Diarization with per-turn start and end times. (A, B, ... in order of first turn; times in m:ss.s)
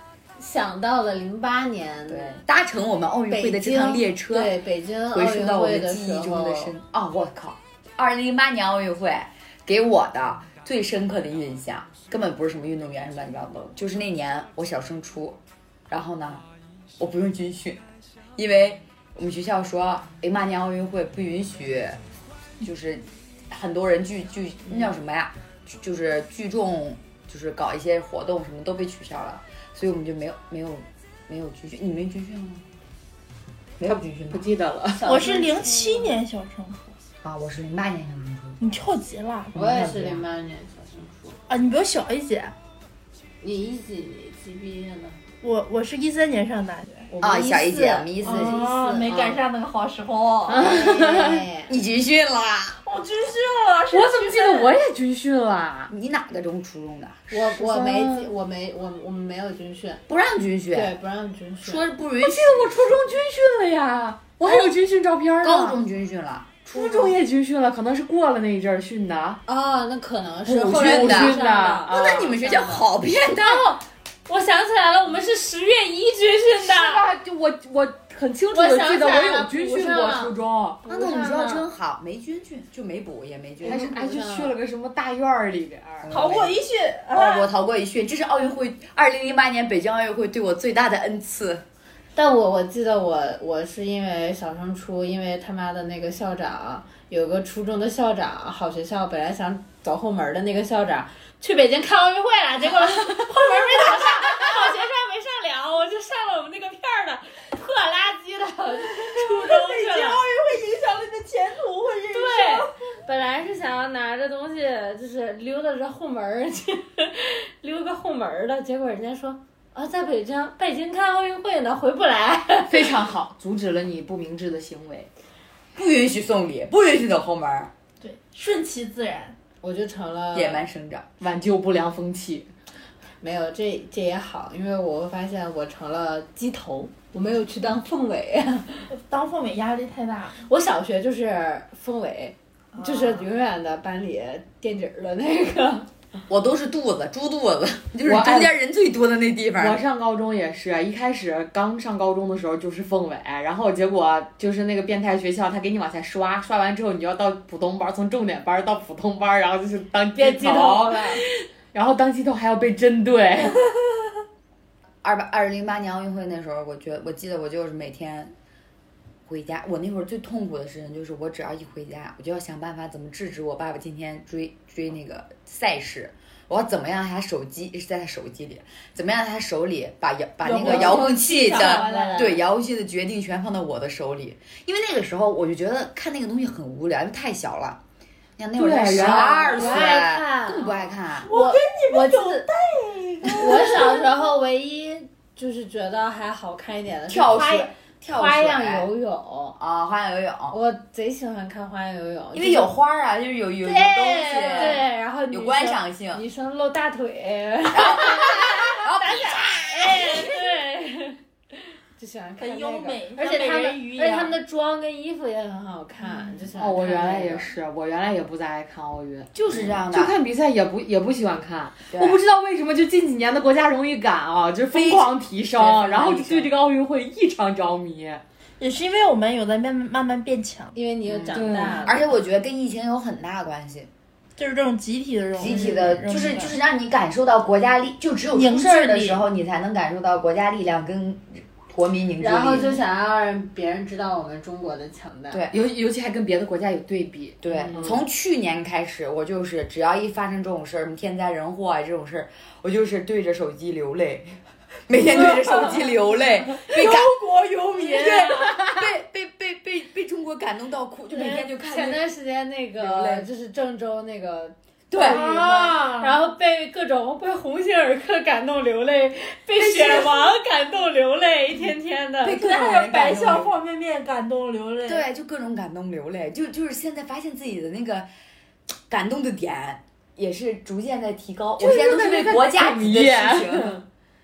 0:00.4-0:02.4 A
0:02.1-0:04.6 B
0:03.3-0:06.8 A
0:05.1-0:16.5 B
0:17.0-0:17.8 B
0:18.4-0:22.0 B
0:22.6-0:32.7 B
0:33.8-0:34.5 B
0:33.8-0:35.2 C
0:35.0-0:36.2 A
0:35.0-0:36.9 D
0:37.2-0:38.6 B
0:38.6-0:39.5 D
0:39.5-0:40.2 B
0:39.5-0:41.4 A
0:41.5-0:42.5 D
0:43.4-0:45.2 A
0:45.4-0:47.1 D
0:47.2-0:49.0 B
0:47.4-0:49.1 A
0:48.2-0:50.7 D
0:50.6-0:51.7 A
0:50.6-0:51.3 C
0:51.7-0:52.8 B
0:52.8-0:54.8 D
0:53.9-0:55.9 C
0:55.9-0:57.3 B
0:57.3-1:00.0 A
0:57.4-0:58.3 C
1:00.1-1:00.9 B
1:00.7-1:01.8 A
1:01.6-1:02.7 B
1:02.2-1:05.8 C
1:05.4-1:07.2 B
1:06.7-1:09.4 C
1:09.5-1:17.0 A
1:10.4-1:12.4 C
1:10.7-1:13.7 B
1:16.6-1:20.9 C
1:18.5-1:21.7 A
1:20.8-1:23.9 B
1:23.6-1:24.6 A
1:23.6-1:26.4 C
1:26.0-1:26.6 B
1:26.1-1:27.5 D
1:27.1-1:31.6 B
1:32.2-1:50.2 A
1:43.8-1:44.3 D
1:49.1-1:52.7 D
1:52.1-2:02.9 A
2:02.7-2:05.1 C
2:05.8-2:07.7 B
2:08.0-2:09.4 D
2:09.6-2:10.7 A
2:10.3-2:11.1 B
2:11.2-2:12.5 C
2:13.2-2:18.9 A
2:18.9-2:20.4 D
2:20.5-2:25.9 A
2:22.7-2:23.3 D
2:26.3-2:29.8 B
2:28.0-2:28.5 C
2:29.6-2:43.6 C
2:40.2-2:41.2 A
2:45.0-2:48.3 B
2:49.3-3:07.8 B
3:00.4-3:02.4 A
3:00.6-3:01.1 C
3:01.4-3:02.3 D
3:08.4-3:11.3 B
3:08.6-3:09.8 C
3:08.9-3:12.4 A
3:11.3-3:13.8 D
3:13.3-3:19.6 A
3:17.1-3:18.9 B
3:19.6-3:20.6 B
3:20.5-3:22.7 A
3:22.3-3:26.2 B
3:23.6-3:31.2 A
3:24.5-3:24.8 D
3:27.7-3:30.3 B
3:32.0-3:37.5 A
3:32.4-3:34.4 D
3:36.5-3:48.2 C
3:39.3-3:40.2 B
3:41.9-3:42.2 B
3:44.7-3:46.5 B
3:48.6-3:50.8 D
3:50.7-3:52.1 A
3:51.1-3:53.9 B
3:51.3-3:52.0 C
3:54.4-3:56.6 D
3:55.4-4:02.8 B
3:58.3-3:59.2 D
4:02.2-4:05.4 A
4:05.5-4:08.0 C
4:07.4-4:14.4 B
4:14.9-4:17.2 B
4:16.8-4:18.6 D
4:17.8-4:22.1 B
4:21.1-4:32.4 A
4:22.8-4:23.2 B
4:24.9-4:25.2 B
4:25.0-4:26.2 D
4:29.6-4:30.3 B
4:32.2-4:33.5 B
4:32.3-4:35.1 D
4:34.8-4:38.1 B
4:38.9-4:43.8 B
4:41.6-4:43.8 C